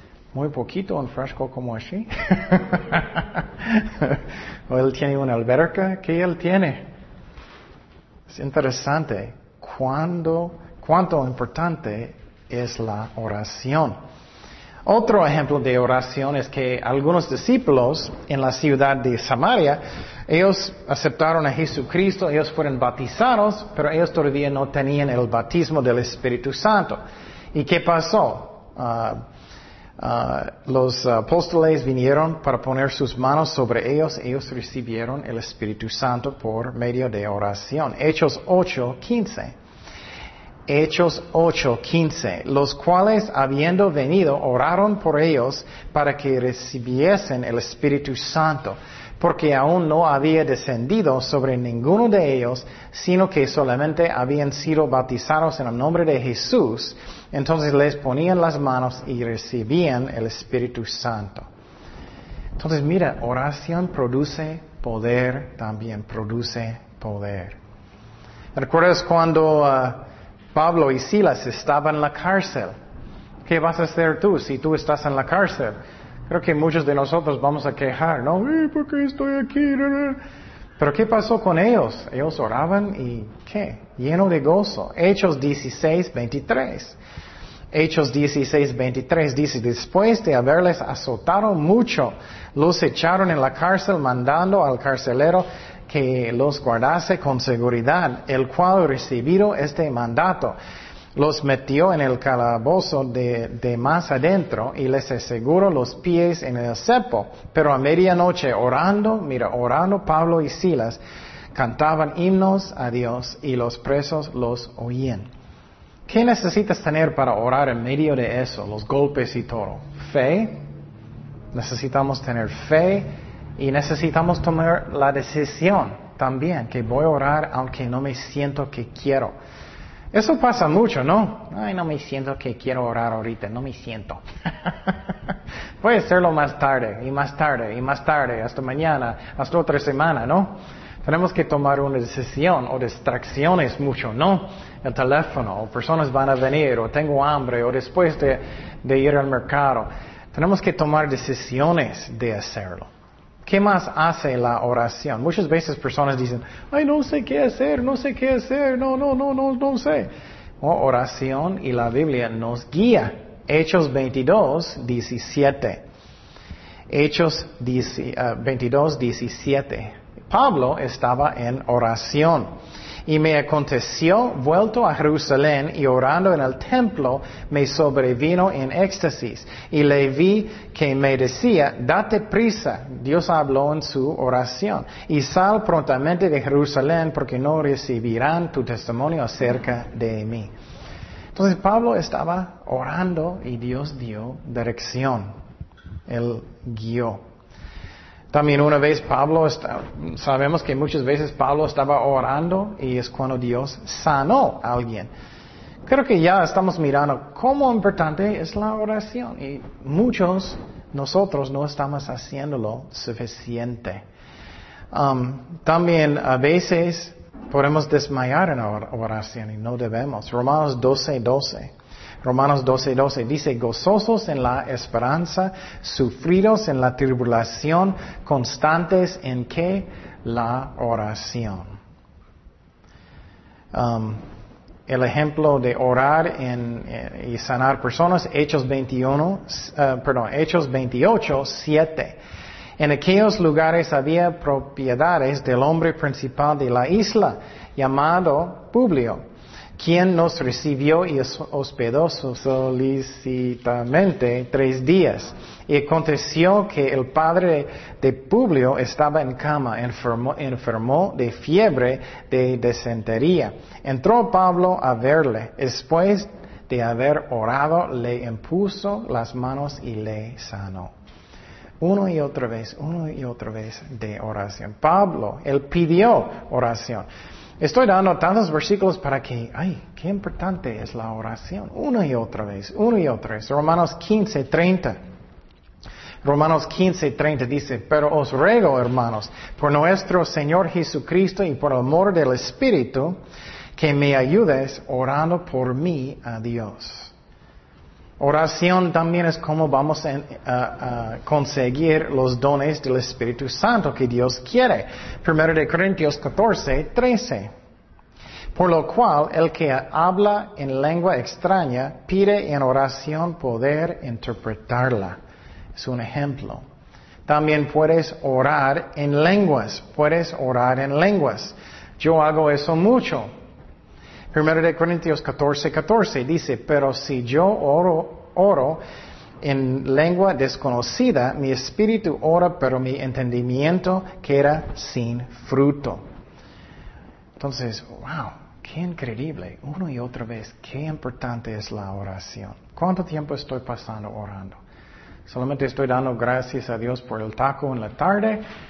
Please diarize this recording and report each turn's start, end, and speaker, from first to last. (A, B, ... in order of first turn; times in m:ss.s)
0:00.3-0:06.8 A
0:08.3-0:14.0 A
0:14.9-0:27.0 A
0:27.5-0:29.2 A
0:30.0-0:39.5 A
0:40.7-1:01.5 A
1:02.6-1:07.6 A
1:08.6-1:12.7 A
1:13.4-1:15.8 A
1:16.3-1:20.2 A
1:20.8-1:27.0 A
1:27.7-1:40.6 A
1:41.2-1:51.0 A
1:51.5-1:55.3 A
1:56.1-2:00.6 A
2:01.5-2:09.3 A
2:10.1-2:15.0 A
2:15.8-2:32.9 A
2:33.4-2:40.1 A
2:40.6-2:45.8 A
2:46.9-2:52.5 A
2:53.1-3:10.5 A
3:11.4-3:15.3 A
3:16.1-3:17.2 A
3:18.3-3:25.1 A
3:25.9-3:34.0 A
3:34.9-3:41.7 A
3:42.2-3:51.8 A
3:53.7-3:54.2 A
3:54.9-4:02.2 A
4:02.8-4:09.2 A
4:09.8-4:30.9 A
4:31.8-4:37.1 A
4:37.6-4:45.0 A
4:46.2-4:53.2 A
4:53.8-4:57.1 A
4:58.2-5:07.5 A
5:08.6-5:15.2 A
5:15.8-5:16.6 A
5:17.3-5:23.3 A
5:24.3-5:28.8 A
5:29.4-5:36.0 A
5:37.4-5:44.6 A
5:45.3-5:48.4 A